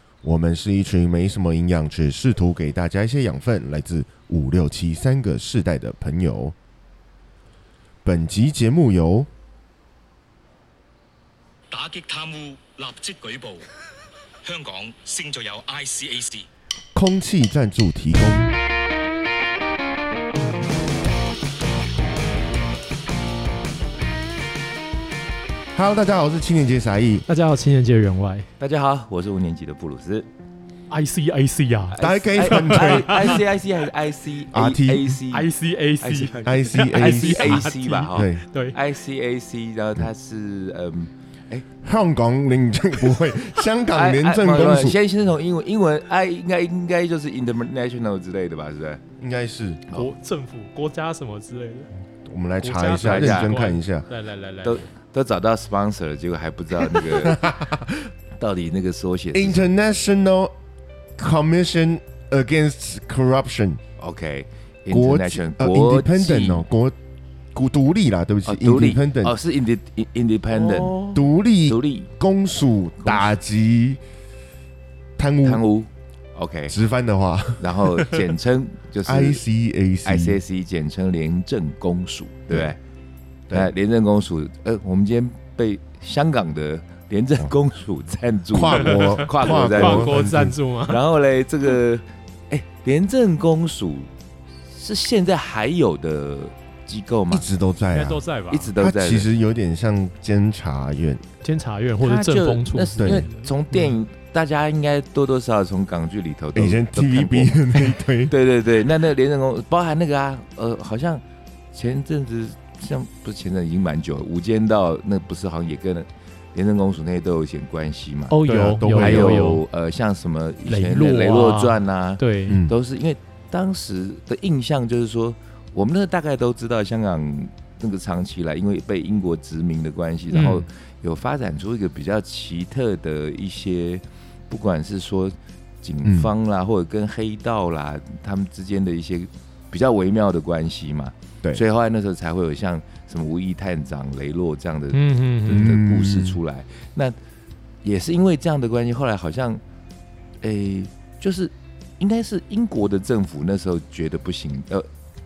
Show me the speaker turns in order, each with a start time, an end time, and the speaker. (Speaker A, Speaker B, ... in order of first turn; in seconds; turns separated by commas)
Speaker A: 0.2-6.5, Speaker A: 8.0-9.3, Speaker B: 11.7-13.6, Speaker B: 14.4-16.4, Speaker A: 16.9-18.6, Speaker A: 25.7-27.2, Speaker C: 27.3-28.5, Speaker D: 28.6-30.3, Speaker C: 30.9-33.4, Speaker D: 31.9-35.5, Speaker A: 32.0-33.4, Speaker A: 34.5-35.2, Speaker C: 35.3-38.8, Speaker D: 36.0-41.6, Speaker A: 36.4-38.4, Speaker A: 41.8-45.0, Speaker D: 43.9-49.0, Speaker A: 49.2-49.8, Speaker C: 49.9-51.9, Speaker A: 52.2-54.0, Speaker C: 52.6-54.8, Speaker D: 52.9-53.6, Speaker D: 54.6-57.5, Speaker A: 57.0-58.1, Speaker D: 58.4-59.7, Speaker A: 59.3-60.5, Speaker A: 61.2-63.8, Speaker D: 64.0-66.6, Speaker A: 64.9-66.9, Speaker A: 67.5-69.3, Speaker D: 68.5-71.1, Speaker C: 70.5-71.2, Speaker A: 71.1-74.0, Speaker D: 71.7-72.1, Speaker D: 73.0-73.3, Speaker A: 75.2-75.6, Speaker D: 75.4-76.7, Speaker A: 76.7-77.8, Speaker D: 77.6-79.4, Speaker A: 79.0-80.4, Speaker D: 80.0-82.8, Speaker D: 83.5-90.2, Speaker A: 88.5-90.5, Speaker C: 88.8-91.0, Speaker D: 90.9-94.1, Speaker D: 94.7-97.4, Speaker A: 97.3-98.2, Speaker C: 97.9-98.7, Speaker D: 98.5-99.2, Speaker A: 98.8-101.2, Speaker C: 101.4-103.8, Speaker D: 102.0-118.4, Speaker A: 103.0-103.2, Speaker A: 106.5-108.3, Speaker C: 118.3-119.6, Speaker A: 118.5-119.5, Speaker D: 118.9-147.2, Speaker C: 120.7-122.6, Speaker A: 122.5-122.7, Speaker C: 130.3-130.6, Speaker A: 136.0-136.3, Speaker C: 144.9-145.7, Speaker A: 145.5-146.4, Speaker D: 147.8-149.6, Speaker D: 150.4-154.9